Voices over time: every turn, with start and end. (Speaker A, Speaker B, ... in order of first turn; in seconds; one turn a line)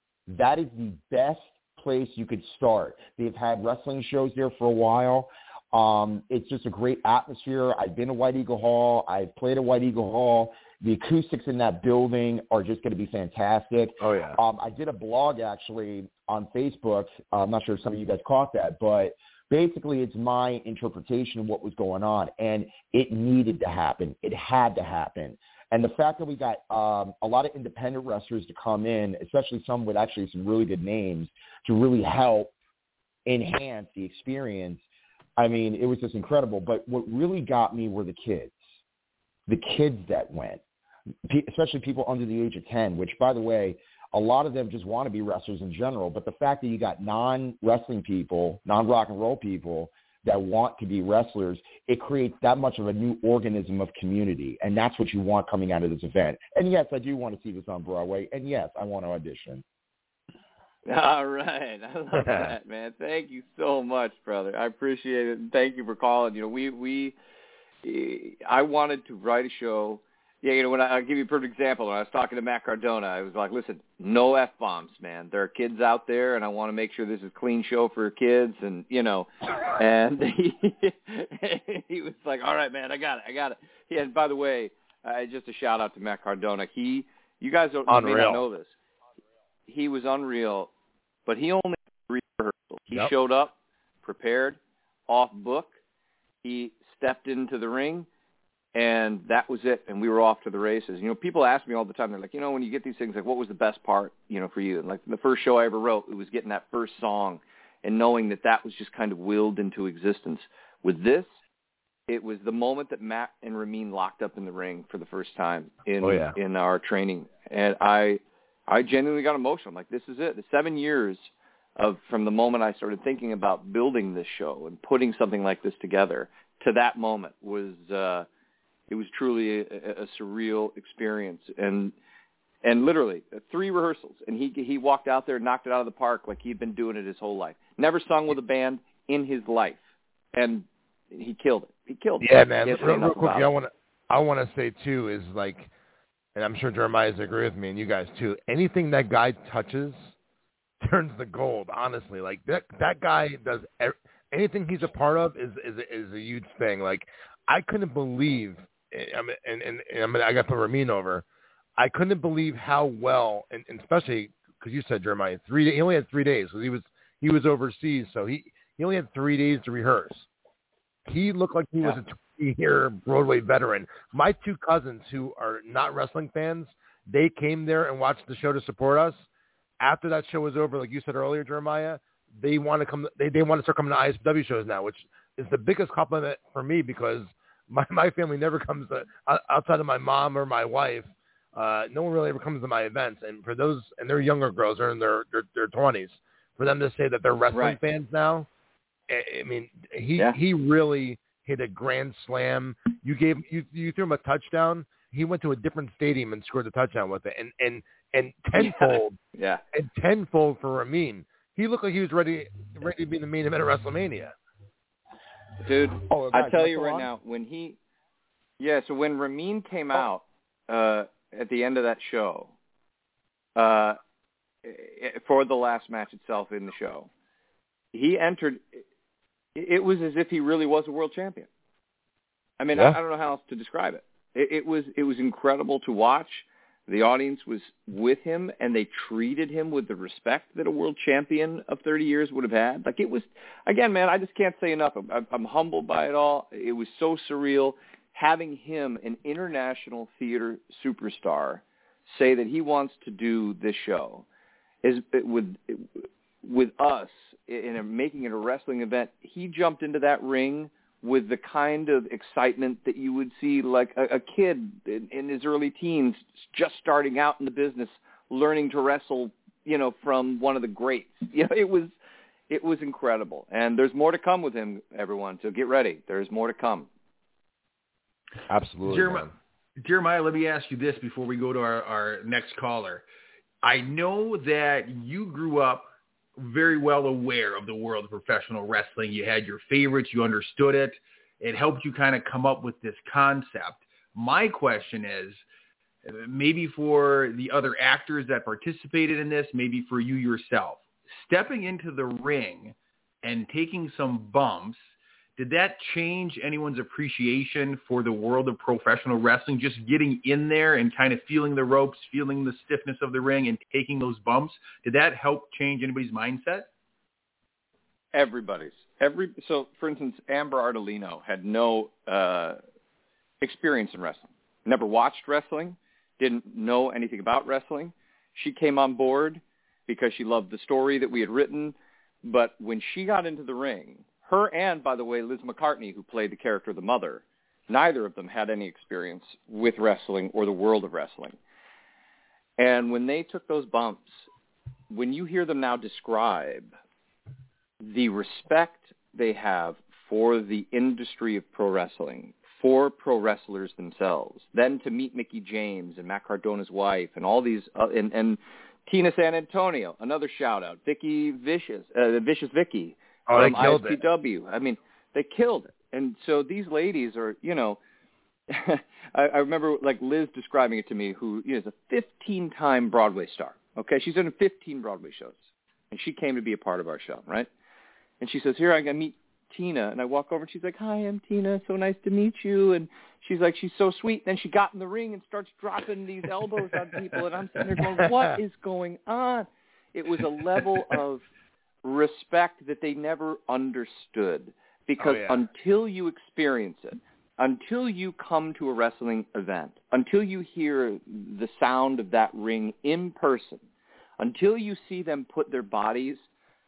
Speaker A: 0.3-32.5
Speaker B: 14.0-14.4
Speaker A: 33.3-34.8
Speaker A: 35.4-38.6
Speaker A: 39.5-40.6
Speaker A: 41.3-59.6
Speaker C: 60.9-67.2
Speaker C: 67.8-88.7
Speaker B: 87.9-88.4
Speaker C: 89.7-90.7
Speaker C: 91.3-95.8
Speaker C: 96.4-98.1
Speaker C: 98.7-111.3
Speaker C: 112.1-128.3
Speaker B: 116.0-116.3
Speaker C: 128.9-131.9
Speaker C: 132.6-139.8
Speaker C: 140.3-143.5
Speaker B: 142.2-145.7
Speaker B: 146.4-150.1
Speaker B: 150.8-161.2
Speaker B: 161.8-170.3
Speaker B: 171.1-179.2
Speaker B: 179.8-198.5
Speaker C: 197.5-197.8
Speaker B: 199.1-209.2
Speaker C: 208.6-209.6
Speaker B: 209.7-214.3
Speaker C: 215.6-217.8
Speaker B: 216.1-217.1
Speaker C: 218.6-222.5
Speaker C: 223.6-224.0
Speaker C: 224.6-227.1
Speaker C: 227.9-228.8
Speaker C: 229.6-231.5
Speaker C: 232.6-254.3
Speaker C: 254.8-271.9
Speaker C: 272.5-276.9
Speaker B: 278.5-279.3
Speaker D: 278.9-279.3
Speaker D: 279.8-283.0
Speaker D: 283.6-295.4
Speaker D: 296.1-304.8
Speaker D: 305.4-316.7
Speaker C: 318.1-322.6
Speaker C: 323.4-341.4
Speaker C: 342.6-344.2
Speaker C: 344.9-346.7
Speaker C: 347.8-367.8
Speaker B: 363.3-364.0
Speaker C: 368.5-377.5
Speaker C: 378.2-391.3
Speaker B: 388.0-388.3
Speaker C: 391.8-403.6
Speaker B: 395.0-395.4
Speaker C: 404.2-406.2